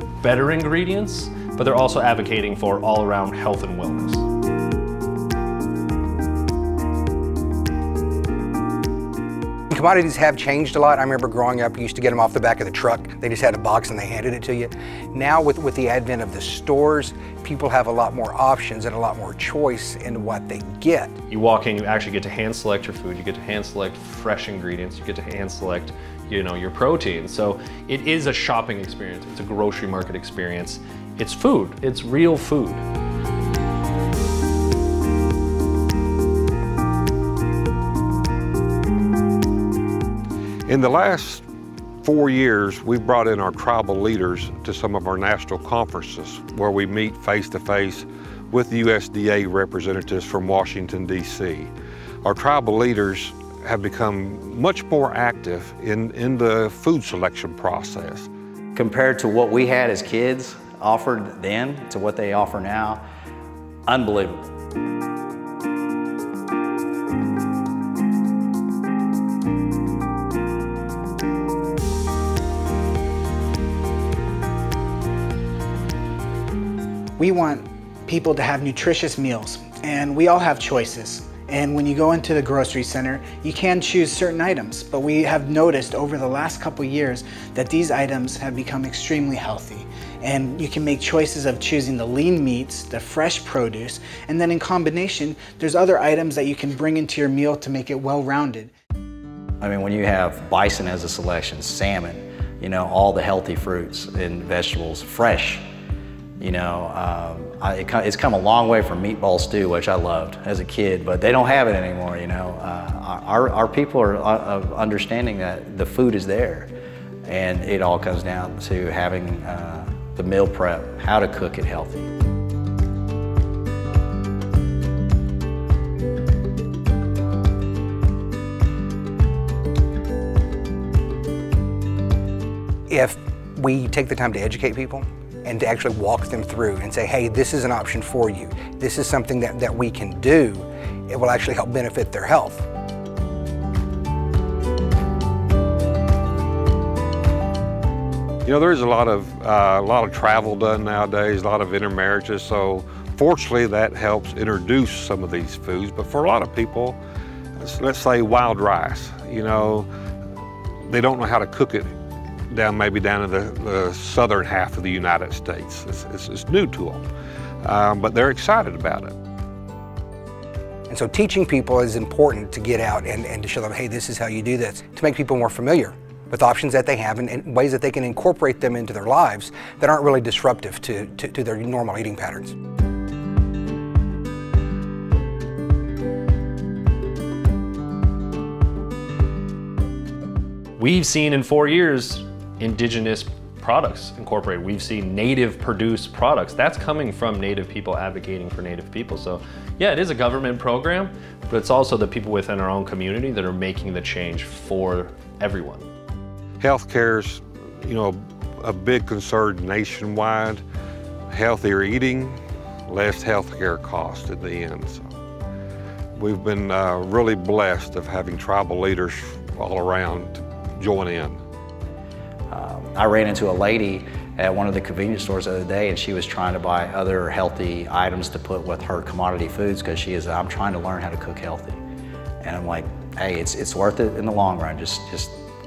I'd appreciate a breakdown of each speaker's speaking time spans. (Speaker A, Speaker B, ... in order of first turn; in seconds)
Speaker A: 0.2-4.2, 21.3-32.8, 190.8-205.9
Speaker B: 9.7-21.1, 132.9-142.7, 170.9-182.6
Speaker C: 40.7-41.4, 42.0-51.7, 52.2-58.3, 148.4-157.0, 157.6-159.9, 160.9-161.9, 162.5-167.1, 167.6-169.2, 206.6-210.6, 211.3-215.1, 216.2-221.4
Speaker D: 58.8-63.0, 63.9-64.4, 99.6-105.6, 106.4-116.7, 117.2-122.1, 222.5-231.8, 232.4-235.4
Speaker E: 77.2-98.7